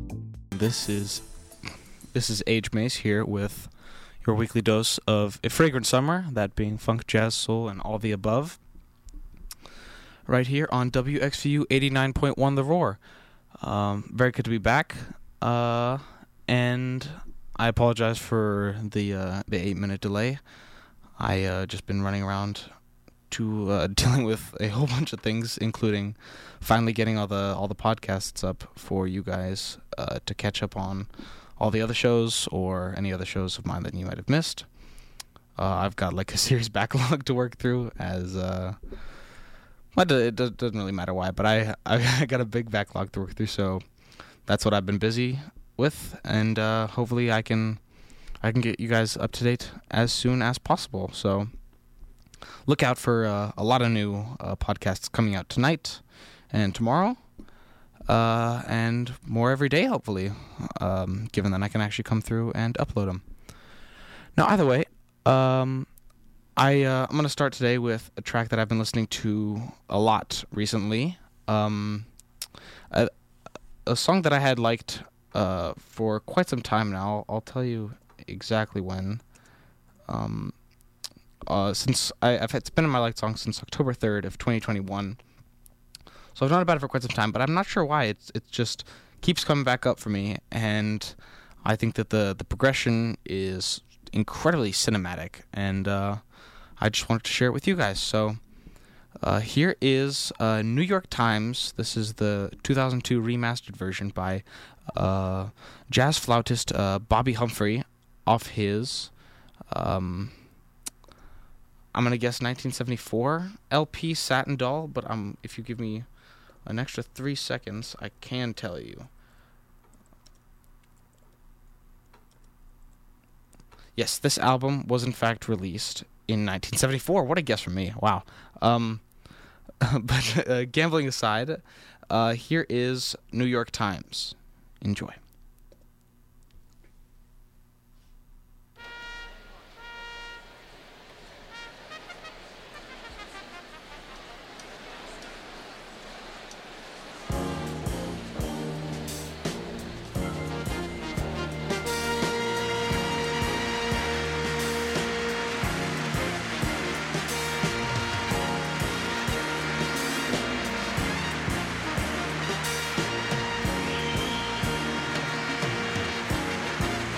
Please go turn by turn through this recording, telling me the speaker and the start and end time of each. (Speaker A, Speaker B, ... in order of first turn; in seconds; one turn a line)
Speaker A: 0.5-1.2
Speaker A: 2.1-3.7
Speaker A: 4.2-8.6
Speaker A: 10.3-13.0
Speaker A: 13.6-20.4
Speaker A: 21.2-22.7
Speaker A: 23.3-34.7
Speaker A: 35.6-38.8
Speaker A: 39.9-43.8
Speaker A: 44.5-47.8
Speaker A: 48.4-51.5
Speaker A: 52.6-57.2
Speaker A: 58.0-63.2
Speaker A: 64.3-65.9
Speaker A: 66.5-72.1
Speaker A: 73.8-79.2
Speaker A: 80.1-80.5
Speaker A: 81.5-85.2
Speaker A: 86.3-96.2
Speaker A: 96.8-98.4
Speaker A: 99.2-109.1
Speaker A: 109.7-110.3
Speaker A: 111.9-116.1
Speaker A: 116.6-119.1
Speaker A: 124.0-129.0
Speaker A: 129.8-135.2